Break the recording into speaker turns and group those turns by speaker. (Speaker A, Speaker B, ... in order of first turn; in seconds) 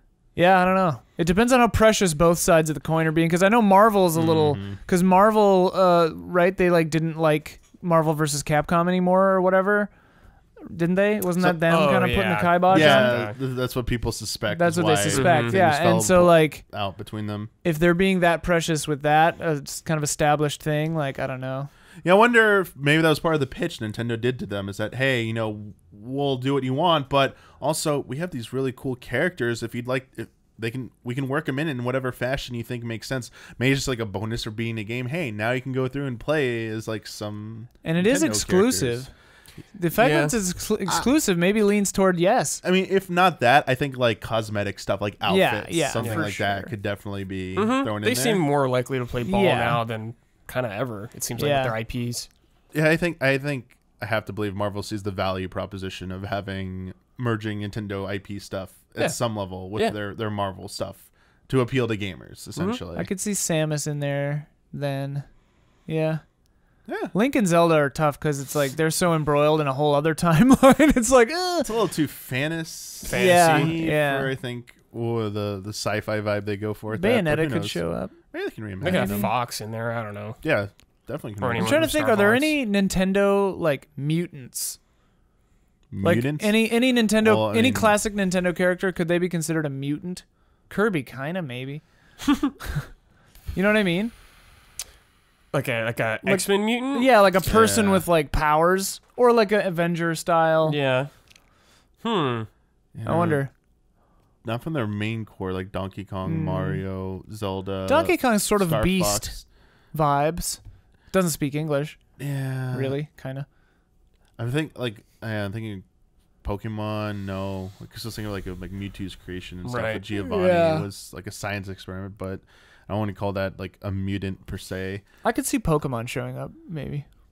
Speaker A: 0.4-9.9, 10.7-13.2, 14.5-16.6, 17.6-21.7, 37.8-39.1, 39.8-42.6, 45.3-46.7, 49.2-49.8, 51.4-51.8, 62.9-65.3, 65.9-66.2, 67.1-71.7, 73.1-74.3, 76.9-78.2, 78.8-79.3, 81.6-84.8, 86.0-91.8, 93.5-94.1, 96.2-100.8, 103.1-103.5, 106.2-106.8, 107.9-110.6, 111.1-112.0, 112.7-113.5, 120.1-120.9, 125.2-127.0
Speaker B: 4.1-4.8, 12.7-17.5, 22.1-39.1, 42.6-48.4, 52.7-63.1, 66.9-67.1, 71.6-77.8, 78.3-79.3, 80.4-82.0, 85.9-88.0, 97.4-98.0, 103.0-103.5, 104.4-109.4, 112.2-113.0, 114.4-115.8, 116.4-125.0
Speaker C: 11.5-13.3, 15.1-15.6, 40.0-40.4, 46.0-46.3, 47.6-52.3, 73.0-73.7, 78.8-80.4, 81.4-82.5, 95.5-97.1, 100.7-101.1, 102.0-102.5, 119.7-120.0